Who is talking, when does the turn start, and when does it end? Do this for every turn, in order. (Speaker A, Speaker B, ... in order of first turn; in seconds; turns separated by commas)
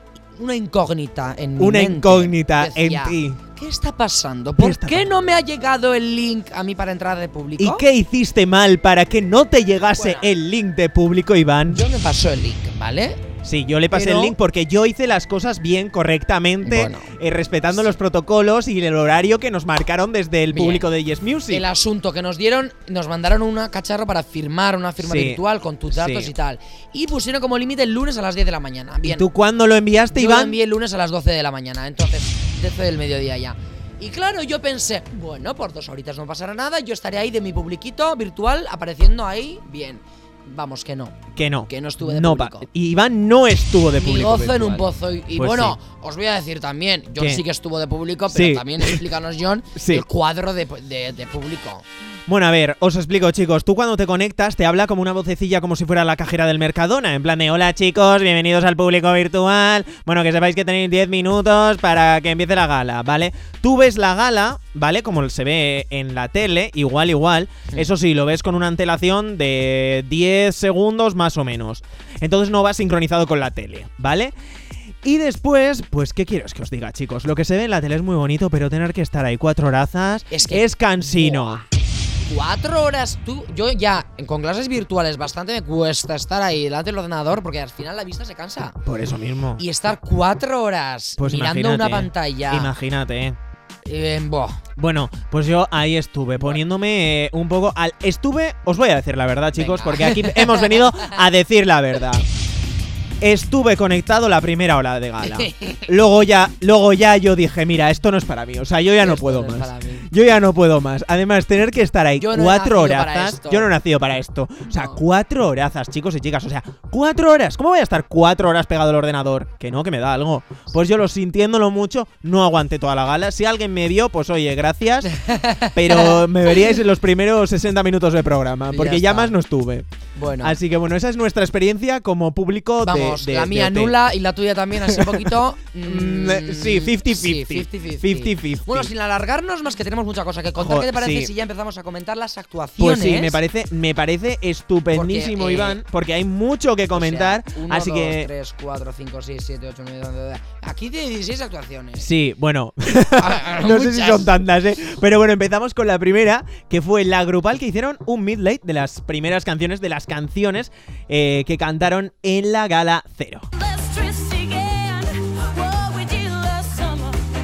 Speaker A: 0.4-7.8, Speaker B: 1.6-3.4, Speaker B: 4.6-5.1, Speaker B: 7.6-11.8, Speaker A: 9.9-10.3, Speaker A: 11.7-13.2, Speaker B: 13.4-21.7, Speaker A: 13.9-14.4, Speaker A: 16.6-17.1, Speaker A: 17.7-18.0, Speaker A: 20.5-20.9, Speaker A: 21.5-29.3, Speaker B: 25.0-26.3, Speaker B: 29.0-30.6, Speaker A: 30.1-42.7, Speaker B: 41.4-45.8, Speaker A: 44.0-51.9, Speaker B: 47.2-47.4, Speaker B: 48.3-49.0, Speaker B: 49.8-50.0, Speaker B: 52.3-74.3, Speaker B: 75.0-81.7, Speaker A: 80.3-81.7, Speaker A: 82.2-88.8, Speaker B: 88.8-89.6, Speaker A: 89.6-92.7, Speaker B: 91.2-93.4, Speaker A: 93.8-94.6, Speaker B: 94.8-102.3, Speaker A: 99.6-101.1, Speaker B: 103.2-125.1, Speaker A: 105.2-105.9, Speaker A: 109.0-110.1, Speaker A: 112.2-113.7, Speaker A: 114.7-115.0, Speaker A: 125.0-126.3, Speaker B: 125.7-129.9, Speaker A: 128.7-129.4, Speaker A: 130.2-130.6, Speaker B: 130.4-133.9, Speaker A: 132.8-143.4, Speaker B: 134.8-138.9, Speaker B: 140.6-141.3, Speaker B: 142.8-148.3, Speaker A: 144.9-145.8, Speaker A: 146.9-152.1, Speaker B: 152.0-163.5, Speaker A: 153.2-154.4, Speaker C: 163.6-167.3